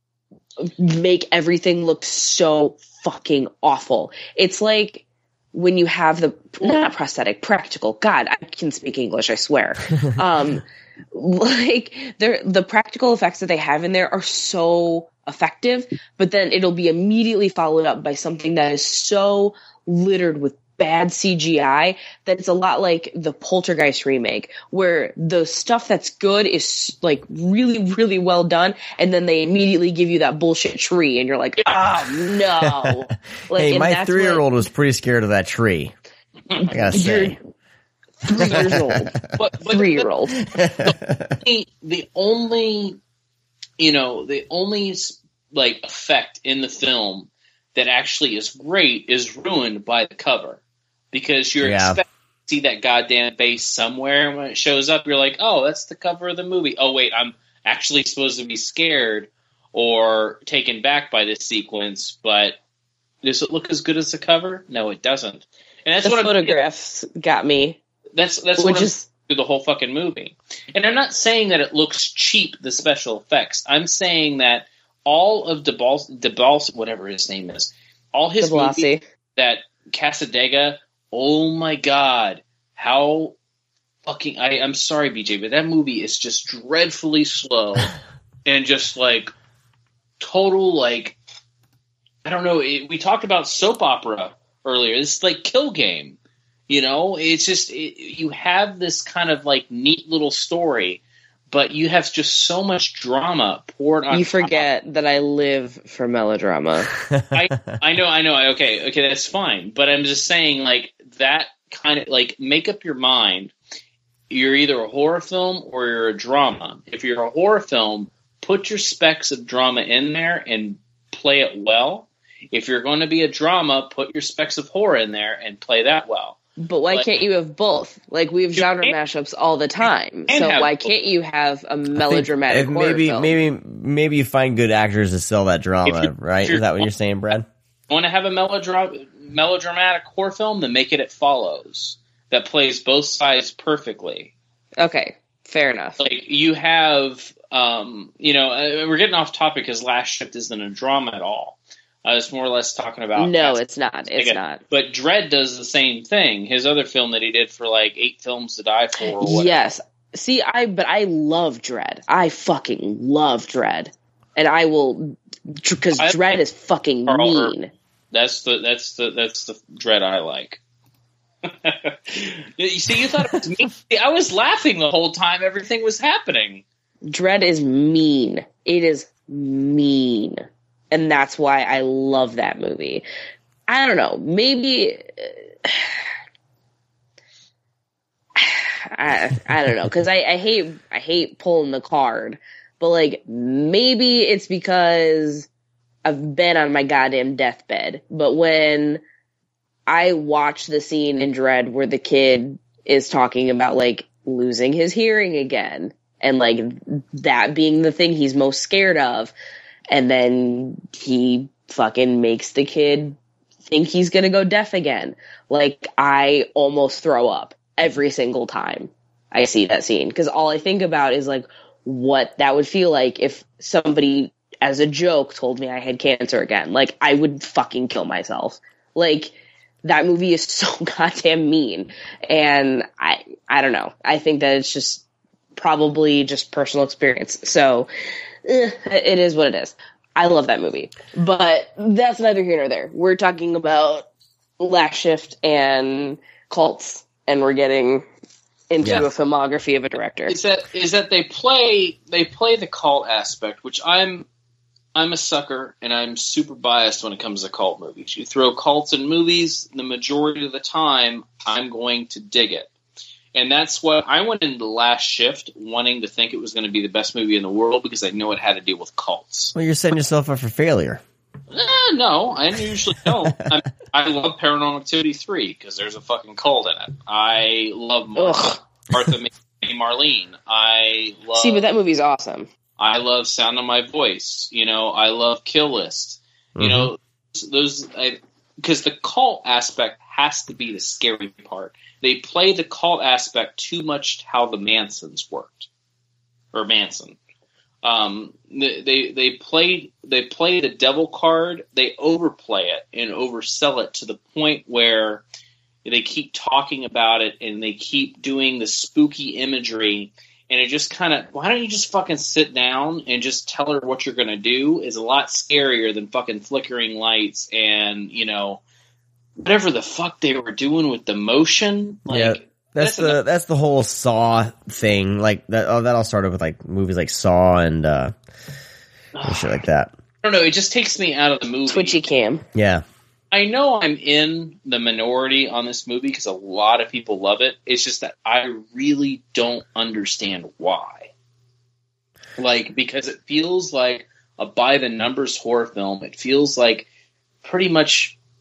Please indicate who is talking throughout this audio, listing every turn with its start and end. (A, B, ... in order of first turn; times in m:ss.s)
0:00.6-0:34.4 A
0:31.6-0:32.2 B
0:33.5-0:35.9 C
0:36.6-0:37.4 A
0:36.7-0:37.4 C
0:38.2-0:39.2 A
0:38.4-0:39.0 C
0:39.3-0:40.0 B
0:39.7-0:40.3 A
0:40.3-0:41.4 C
0:40.8-0:43.0 B
0:43.8-0:50.6 B
0:51.1-1:02.6 B
0:51.6-0:52.0 C
1:03.2-1:06.6 B
1:06.0-1:07.8 A
1:08.2-1:23.3 B
1:08.6-1:09.0 A
1:18.4-1:19.0 A
1:24.0-1:27.9 B
1:28.4-1:29.3 B
1:30.2-1:31.1 B
1:32.2-1:36.2 B
1:36.7-1:44.6 B
1:44.1-1:46.9 A
1:47.1-1:47.4 C
1:47.3-1:53.5 B
1:54.3-2:06.4 B
2:06.6-2:13.4 A
2:08.6-2:08.9 B
2:10.3-2:10.9 B
2:11.9-2:17.5 C
2:15.8-2:16.9 B
2:17.9-2:24.3 B
2:24.8-2:26.0 A
2:26.0-2:33.6 B
2:33.2-2:34.6 A
2:34.2-2:39.5 B
2:39.2-2:47.7 A
2:47.0-2:47.5 B
2:48.1-2:50.6 B
2:51.6-2:56.6 B
2:57.1-3:03.0 A
3:03.7-3:06.0 A
3:08.4-3:15.5 A
3:16.0-3:19.0 A
3:19.9-3:29.3 A
3:29.9-3:33.2 A
3:33.7-3:55.0 A
3:55.6-3:57.9 A
3:58.4-4:04.0 A
4:04.6-4:08.0 A
4:08.7-4:10.3 A
4:08.8-4:09.1 C
4:10.3-4:14.2 B
4:14.9-4:22.7 B
4:23.3-4:29.5 B
4:29.5-4:31.0 C
4:31.5-4:41.7 B
4:38.2-4:38.6 A
4:41.3-4:42.5 A
4:42.8-4:55.7 B
4:46.6-4:46.9 C
4:56.5-4:57.2 B
4:57.8-5:05.2 B
5:05.8-5:18.6 B
5:19.4-5:23.2 B
5:22.1-5:28.1 C
5:29.1-5:29.6 B
5:29.2-5:29.9 C
5:30.2-5:32.0 B
5:31.7-5:32.4 A
5:32.5-5:32.8 C
5:33.3-5:41.1 B
5:42.4-5:46.9 B
5:47.4-5:48.1 B